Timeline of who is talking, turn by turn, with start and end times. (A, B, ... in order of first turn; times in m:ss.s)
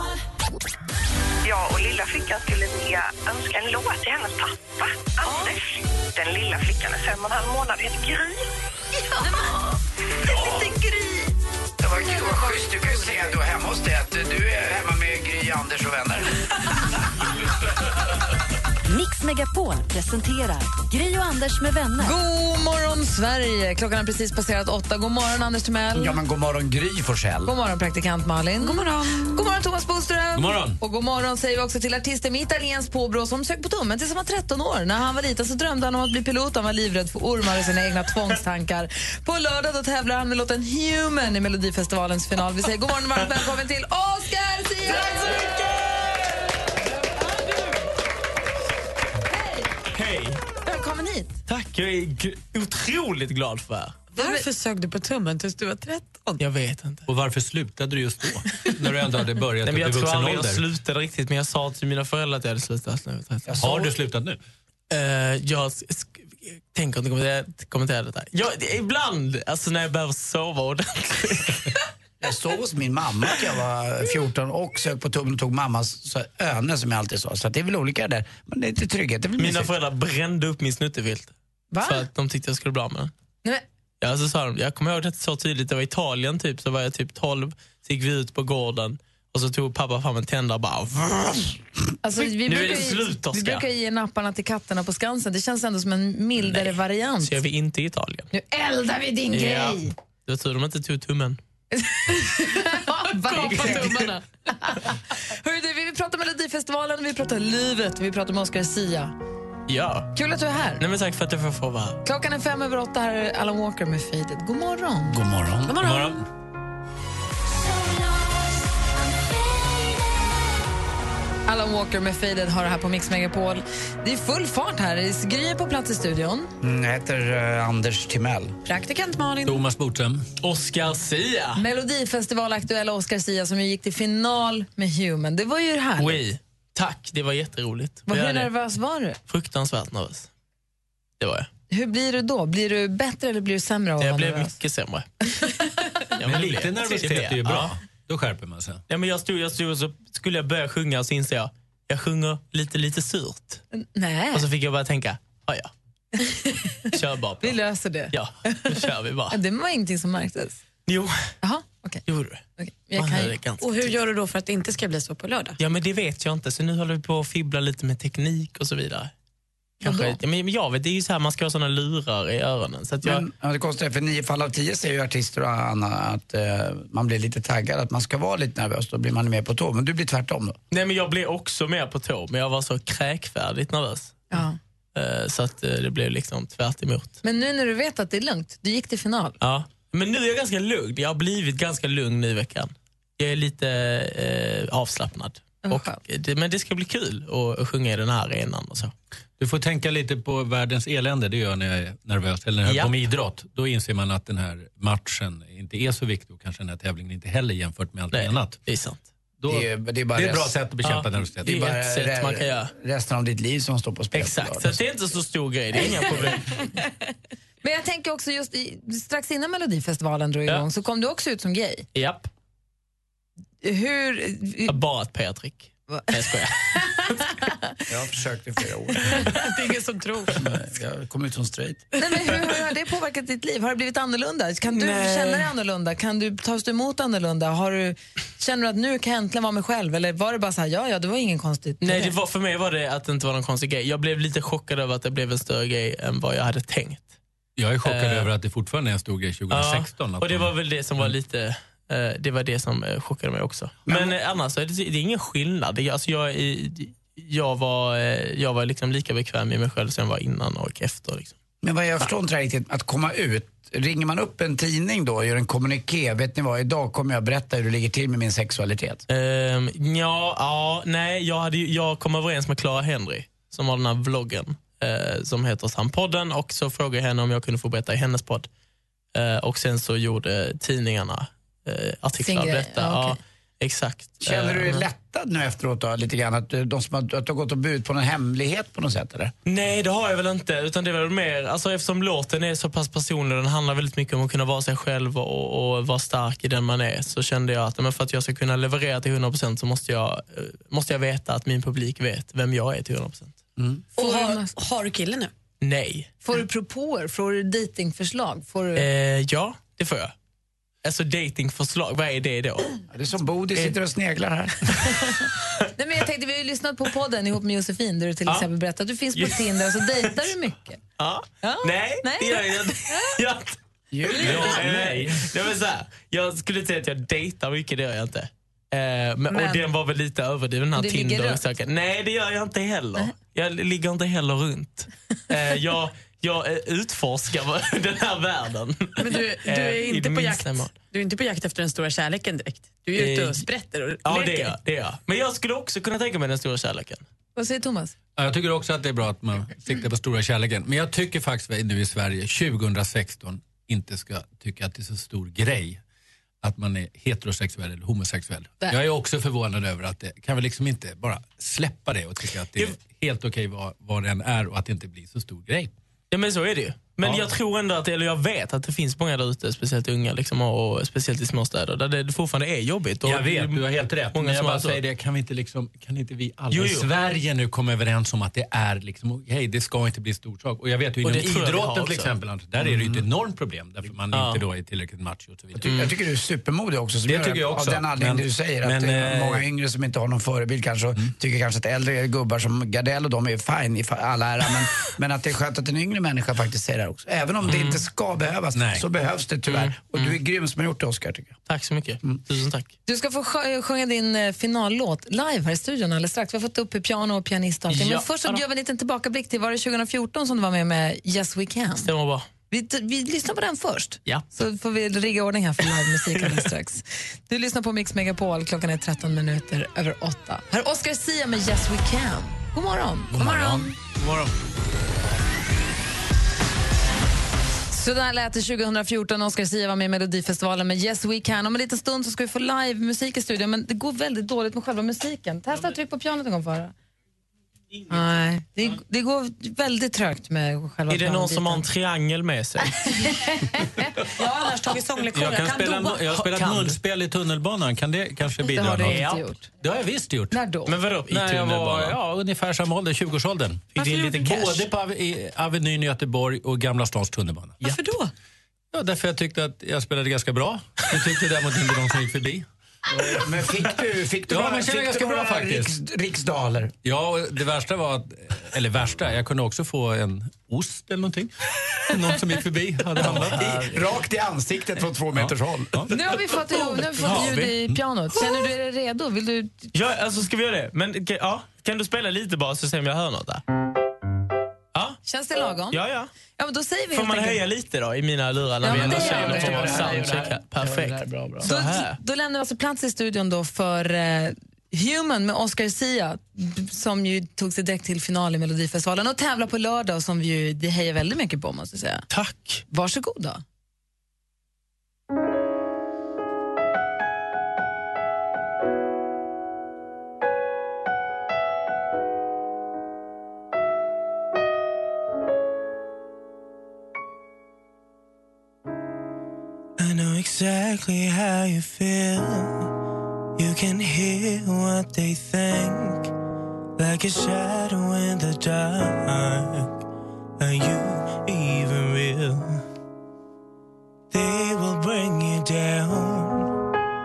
0:01.4-0:08.4 A
0:09.0-0:09.6 B
0:10.2-0:11.3 B
0:11.8-0:16.3 C
0:18.9-0:22.2 D
0:22.0-0:26.2 B
0:25.9-0:27.5 C
0:27.4-0:45.4 B
0:28.6-0:29.4 E
0:30.3-0:30.8 F
0:49.3-0:49.7 B
0:49.9-0:50.4 G
0:50.6-0:51.4 B
0:51.5-0:54.0 G
0:54.1-0:54.4 B
0:54.2-0:56.4 E
0:56.4-0:57.1 G
0:57.1-1:00.6 F
0:59.6-1:03.6 G
1:03.4-1:03.9 C
1:03.6-1:04.4 F
1:04.9-1:11.8 G
1:12.2-1:19.7 C
1:19.4-1:23.1 G
1:21.7-1:22.0 B
1:24.0-1:31.5 G
1:32.0-1:37.4 B
1:32.2-1:33.7 G
1:36.4-1:38.3 G
1:38.3-1:39.9 B
1:39.3-1:41.4 G
1:41.7-1:44.0 B
1:43.1-1:44.2 E
1:43.4-1:44.0 G
1:44.6-1:49.1 B
1:49.7-1:50.1 G
1:50.1-1:50.8 B
1:50.8-1:52.0 G
1:52.0-1:55.2 B
1:55.1-1:56.2 F
1:55.7-1:56.2 E
2:01.5-2:06.5 B
2:06.6-2:08.6 C
2:08.6-2:09.6 E
2:09.4-2:10.2 F
2:10.4-2:11.6 G
2:11.6-2:16.2 B
2:16.0-2:18.5 G
2:18.1-2:19.2 B
2:19.3-2:20.3 G
2:21.2-2:21.5 G
2:21.7-2:24.5 B
2:24.0-2:25.1 G
2:26.1-2:27.7 G
2:26.2-2:28.8 F
2:28.9-2:33.6 G
2:33.7-2:34.4 B
2:34.3-2:35.7 G
2:36.2-2:36.8 B
2:36.9-2:37.6 G
2:37.4-2:38.7 B
2:38.1-2:39.4 G
2:39.3-2:40.6 B
2:40.8-2:41.3 G
2:41.4-2:42.0 B
2:42.1-2:42.4 G
2:42.6-2:43.3 B
2:42.9-2:43.7 G
2:43.6-2:45.6 E
2:45.6-2:49.1 G
2:49.8-2:53.2 G
2:49.8-2:50.2 B
2:53.0-3:00.6 C
3:00.7-3:04.3 G
3:04.3-3:04.6 B
3:04.9-3:07.2 G
3:07.2-3:09.4 B
3:09.4-3:18.9 G
3:15.6-3:16.0 B
3:19.4-3:28.6 F
3:22.6-3:22.9 G
3:28.1-3:29.0 G
3:29.4-3:31.6 F
3:29.5-3:30.6 C
3:30.8-3:32.7 G
3:31.4-3:34.8 C
3:34.1-3:36.5 G
3:35.8-3:36.4 C
3:37.6-3:41.8 B
3:41.9-3:42.3 G
3:43.6-3:44.7 B
3:44.7-3:47.2 G
3:47.9-3:49.3 C
3:49.2-3:50.4 E
3:50.4-3:51.8 C
3:52.0-4:02.1 B
3:54.7-3:55.5 G
4:01.8-4:07.1 G
4:07.6-4:11.1 F
4:07.8-4:08.3 G
4:09.5-4:21.3 G
4:13.9-4:14.1 C
4:21.6-4:29.0 C
4:29.1-4:38.5 G
4:39.1-4:44.8 G
4:42.2-4:43.2 B
4:44.2-4:49.3 C
4:49.4-5:03.3 G
5:03.6-5:03.8 C
5:04.0-5:05.3 E
5:04.0-5:04.5 B
5:05.6-5:06.1 G
5:06.2-5:08.8 B
5:08.8-5:10.1 G
5:10.8-5:12.7 G
5:12.9-5:14.9 C
5:15.8-5:20.8 B
5:19.1-5:20.2 G
5:21.0-5:40.8 G
5:21.4-5:23.2 B
5:23.9-5:24.6 C
5:24.2-5:25.3 F
5:29.3-5:29.6 E
5:30.8-5:31.4 B
5:39.0-5:44.6 E
5:42.9-5:43.5 G
5:44.0-5:47.0 G
5:47.4-5:47.9 B
5:48.2-5:55.8 F
5:56.4-6:05.7 F
6:06.1-6:14.8 G
6:07.0-6:07.3 F
6:13.0-6:25.7 F
6:16.5-6:16.9 G
6:21.0-6:22.1 G
6:22.6-6:23.0 C
6:24.1-6:24.4 G
6:25.5-6:41.4 C
6:25.6-6:25.9 G
6:27.1-6:29.4 F
6:38.6-6:38.8 F
6:39.5-6:40.1 G
6:41.5-6:42.7 G
6:42.8-6:51.9 B
6:47.7-6:48.4 G
6:51.8-6:52.3 G
6:52.5-7:03.1 B
6:55.7-6:56.4 G
7:03.1-7:04.3 F
7:03.2-7:03.7 E
7:07.7-7:16.7 B
7:17.9-7:21.7 B
7:20.9-7:22.9 G
7:22.8-7:23.9 B
7:24.2-7:26.2 E
7:25.1-7:29.1 F
7:26.2-7:26.8 G
7:28.5-7:29.5 B
7:28.9-7:29.2 G
7:29.6-7:30.4 F
7:30.3-7:30.7 B
7:30.6-7:32.0 G
7:31.1-7:37.6 F
7:33.7-7:34.7 G
7:37.6-7:38.1 E
7:38.7-7:42.5 F
7:42.9-7:46.7 C
7:44.3-7:45.8 F
7:46.8-7:53.6 F
7:53.0-7:53.9 G
7:53.0-7:55.9 C
7:55.1-7:56.0 F
7:55.9-7:59.7 B
7:56.6-7:57.5 G
7:57.0-7:57.8 F
7:58.1-7:58.5 G
7:59.7-8:03.4 G
8:05.0-8:05.8 B
8:05.7-8:06.1 G
8:06.4-8:07.4 B
8:06.9-8:12.0 G
8:08.6-8:09.9 B
8:08.7-8:10.2 F
8:08.7-8:11.5 C
8:11.4-8:22.0 B
8:22.1-8:22.6 G
8:22.7-8:23.4 B
8:39.8-8:42.6 G
8:43.4-8:46.1 G
8:46.8-8:49.6 G
8:50.4-8:52.4 G
8:54.1-8:56.3 G